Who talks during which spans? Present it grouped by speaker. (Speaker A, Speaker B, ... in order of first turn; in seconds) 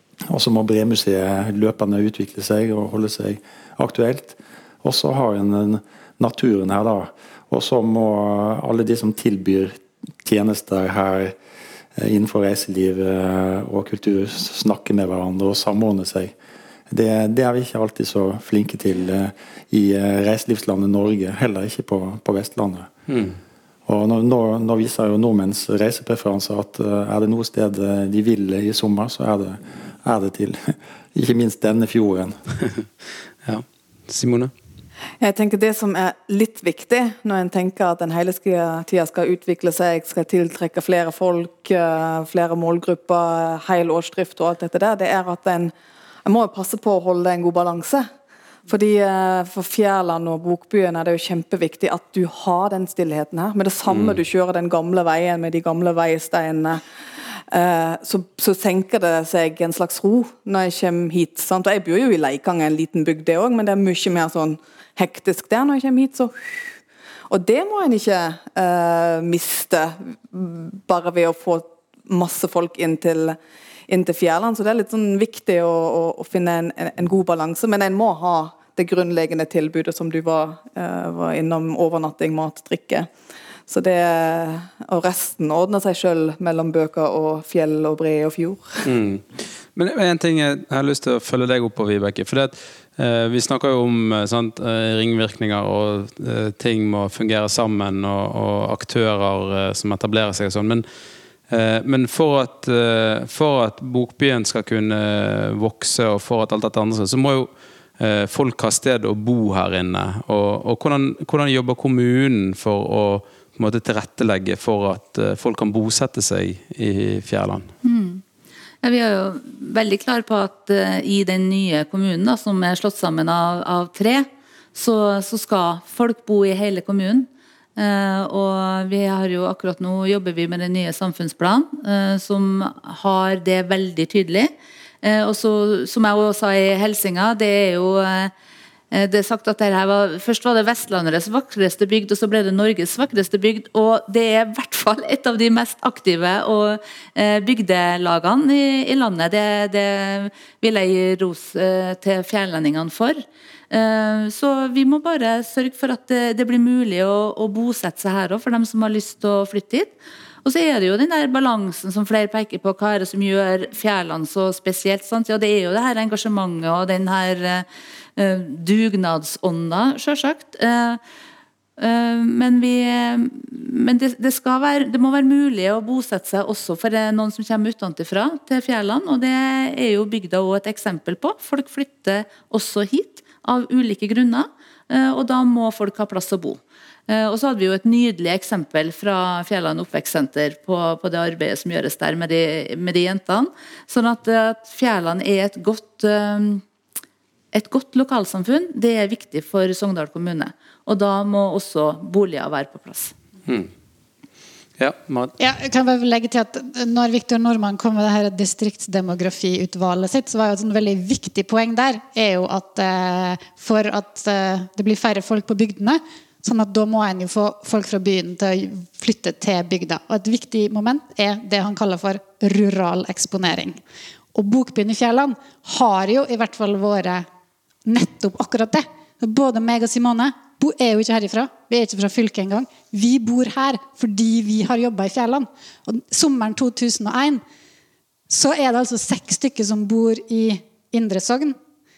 Speaker A: 0.3-11.3, 12.0-16.3, 16.9-22.9, 23.9-32.4
Speaker B: 23.1-23.4, 33.5-34.5, 53.9-54.2, 88.8-100.8, 101.5-117.7, 204.8-205.3
Speaker C: 35.2-45.7, 46.2-48.1, 48.7-56.8, 57.5-66.4, 67.3-83.1, 83.7-88.8
Speaker D: 117.8-118.2, 118.8-138.3, 138.9-171.0, 171.8-196.6, 197.5-203.1
Speaker E: 205.4-223.8, 224.3-227.3, 227.8-237.4, 238.3-241.6